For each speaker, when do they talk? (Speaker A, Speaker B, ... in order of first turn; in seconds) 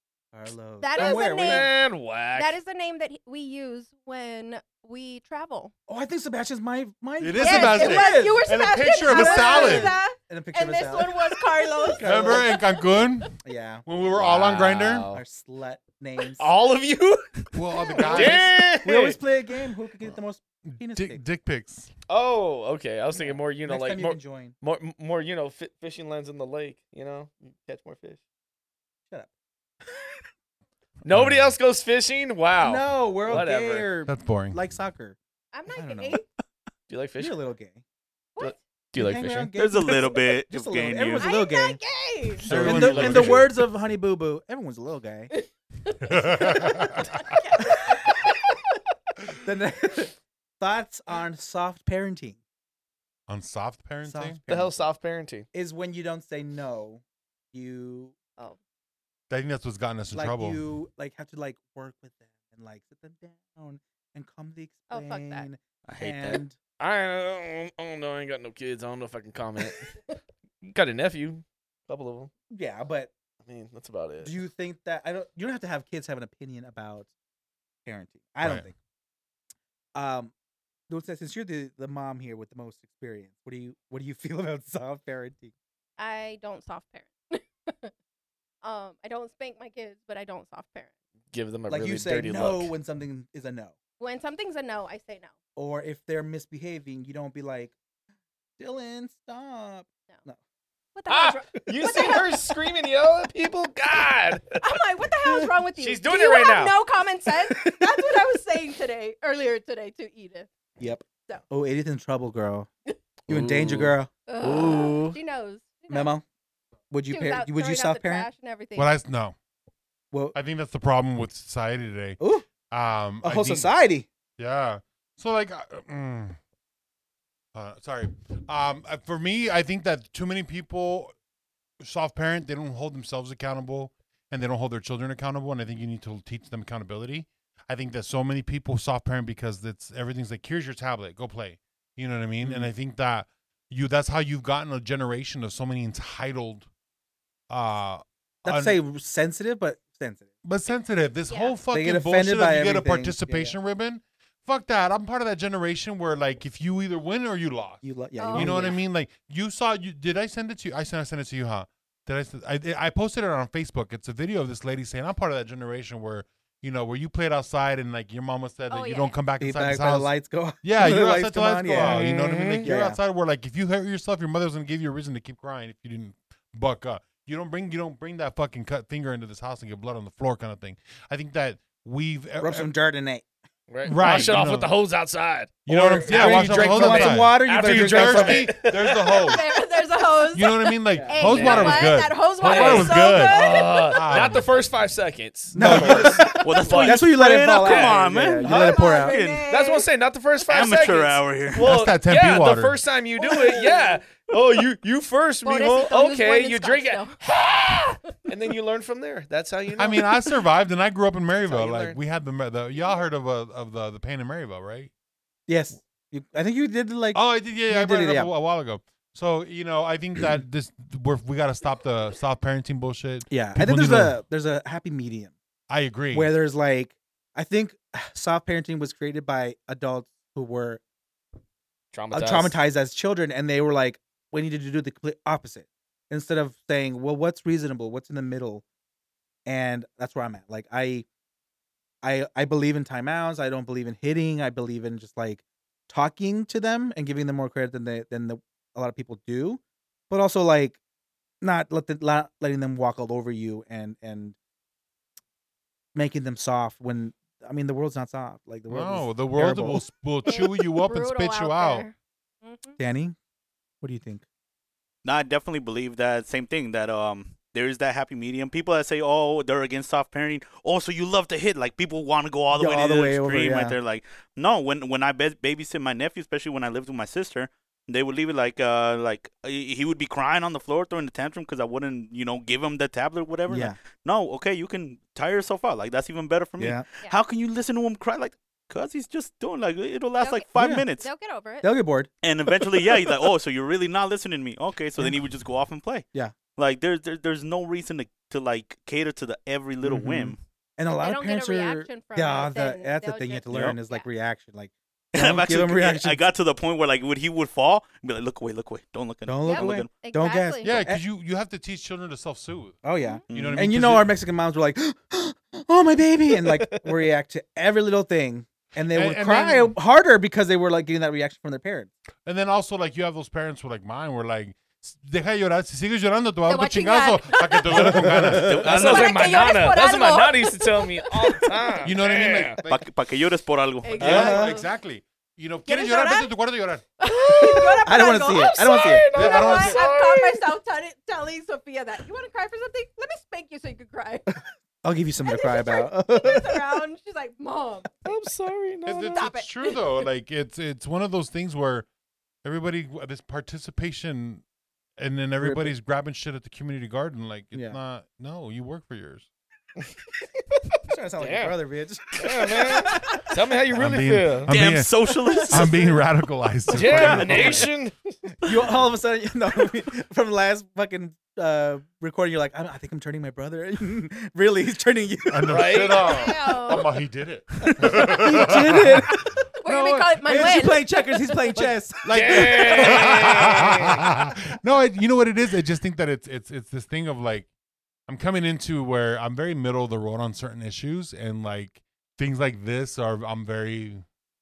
Speaker A: 0.3-1.7, 5.9-8.5, 9.0-11.2, 11.8-12.5, 13.4-13.8, 15.1-16.5, 18.1-21.2, 23.1-24.6, 32.6-35.2, 35.7-36.2, 37.2-37.8, 39.0-41.8, 42.5-45.3, 47.6-47.9, 49.4-52.4, 54.0-54.8, 55.5-58.2, 60.1-66.6, 72.5-73.1, 74.2-77.1, 77.8-78.8, 80.0-80.3, 80.9-85.5, 91.7-93.8, 95.6-97.7, 98.6-100.4, 101.8-102.2, 110.8-112.7, 113.3-114.1, 115.9-116.2, 116.9-118.3, 122.2-122.5, 123.2-124.1, 142.4-142.7, 148.4-150.3, 151.7-153.6, 157.8-158.8, 169.4-172.1, 172.6-173.0, 182.4-183.3, 183.9-184.4, 185.7-188.6, 195.5-199.2, 215.5-218.3, 223.3-225.3, 226.1-230.8, 232.1-238.6, 239.5-241.1, 242.0-250.8, 251.4-254.4, 255.9-259.9, 262.8-263.2, 263.8-264.2, 272.5-273.8, 283.5-283.8, 286.6-286.9, 290.6-290.9, 291.6-292.1, 299.8-306.2, 309.3-311.0, 312.8-321.9, 327.7-328.6, 334.0-334.6, 337.4-339.1, 344.3-346.8, 355.4-355.7, 357.5-357.8, 360.8-363.2, 365.4-365.9, 367.0-367.4, 368.4-375.9, 377.6-379.4, 380.2-383.9
Speaker B: 0.8-1.8, 2.3-5.7, 7.4-13.3, 35.5-36.2, 41.2-42.5, 45.3-48.5, 64.9-65.5, 86.0-87.9, 88.6-90.9, 94.0-95.3, 101.0-102.3, 104.6-110.5, 114.3-116.1, 117.1-118.9, 151.3-151.6, 158.2-158.8, 168.7-169.2, 189.0-194.2, 198.5-199.9, 203.2-204.0, 205.4-208.1, 260.2-262.8, 290.2-291.7, 301.0-304.1, 309.4-310.8, 326.5-327.9, 328.8-331.9, 333.8-334.7, 335.7-336.3, 337.0-344.4, 345.2-348.0, 349.1-350.1, 376.0-376.9, 379.6-381.5
Speaker C: 1.0-2.6, 14.1-15.2, 16.4-19.2, 22.1-28.2, 31.0-33.9, 36.9-37.4, 38.4-39.5, 42.5-43.5, 54.5-55.5, 66.8-70.0, 70.6-72.3, 73.5-74.4, 91.3-92.7, 101.1-104.8, 105.8-106.8, 113.3-115.2, 171.8-172.7, 183.7-189.4, 191.0-198.7, 199.5-210.3, 211.5-211.9, 231.9-232.6, 316.5-316.8, 327.9-332.6, 337.3-337.8, 338.3-340.4, 348.1-349.3, 361.2-361.6, 362.2-364.6, 366.7-368.3, 375.5-376.1, 382.1-384.0
Speaker D: 7.2-10.0, 12.0-13.3, 13.8-15.1, 17.5-18.7, 20.6-21.9, 31.1-31.6, 34.1-34.6, 42.4-43.5, 46.1-47.2, 53.3-54.4, 59.3-60.6, 78.4-78.7, 118.8-119.3, 120.3-123.7, 124.4-126.4, 127.5-131.1, 131.8-146.7, 147.5-148.8, 150.4-182.7, 183.8-184.7, 185.7-189.5, 190.3-194.5, 195.5-196.3, 201.6-202.8, 209.8-214.9, 217.1-224.2, 225.7-226.3, 258.7-261.9, 310.6-314.1, 318.9-319.8, 322.2-328.6, 331.8-332.8, 334.0-336.8, 339.1-339.9, 348.9-351.9, 352.4-354.4, 355.0-359.3, 363.7-364.9, 365.4-367.7, 375.3-380.3, 381.6-387.5, 388.1-394.1
Speaker E: 39.6-41.3, 65.9-66.4, 196.4-199.5, 200.5-201.7, 265.0-291.1, 292.2-300.4, 305.1-309.9, 313.3-313.7, 328.4-329.5, 332.7-334.3, 364.5-365.9, 366.8-367.7